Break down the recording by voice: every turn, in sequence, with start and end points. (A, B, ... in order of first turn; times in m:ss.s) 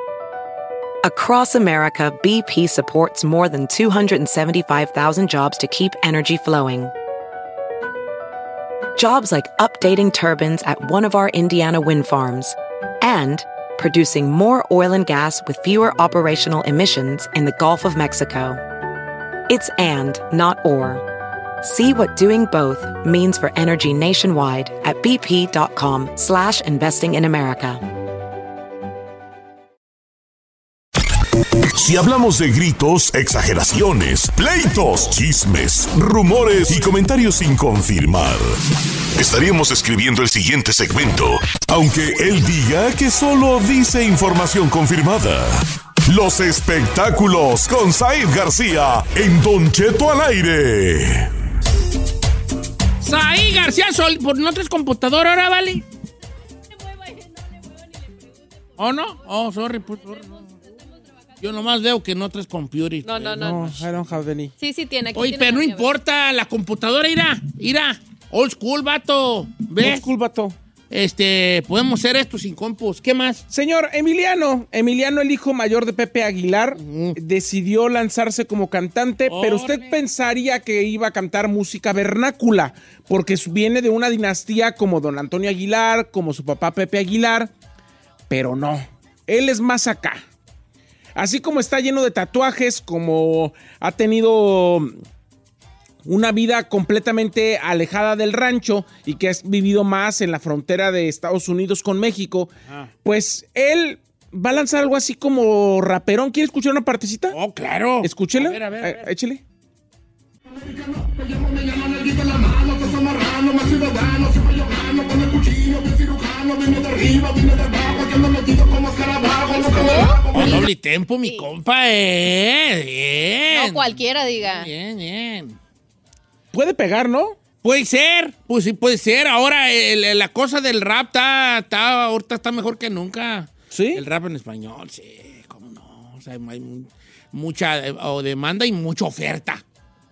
0:01.0-0:06.9 A
0:09.0-0:18.6 A
0:19.5-0:21.0 A
0:21.6-0:27.8 A
0:31.7-0:38.6 B
0:39.2-0:51.3 B
0:53.0-0:55.8 C
0:58.8-1:00.5 C
1:01.4-1:03.9 C
1:03.0-1:03.6 D
1:03.4-1:04.5 E
1:04.6-1:05.9 D
1:05.1-1:10.1 C
1:09.8-1:10.6 E
1:10.9-1:13.4 C
1:13.5-1:27.5 E
1:16.8-1:17.2 C
1:19.2-1:20.0 C
1:28.3-1:30.2 E
1:31.2-1:35.0 E
1:36.0-1:42.5 E
1:43.0-1:47.4 E
1:47.3-1:49.0 C
1:48.0-1:49.4 E
1:59.4-2:00.6 D
2:00.3-2:05.6 C
2:03.5-2:04.7 D
2:06.5-2:07.4 E
2:07.6-2:19.6 C
2:13.7-2:14.0 E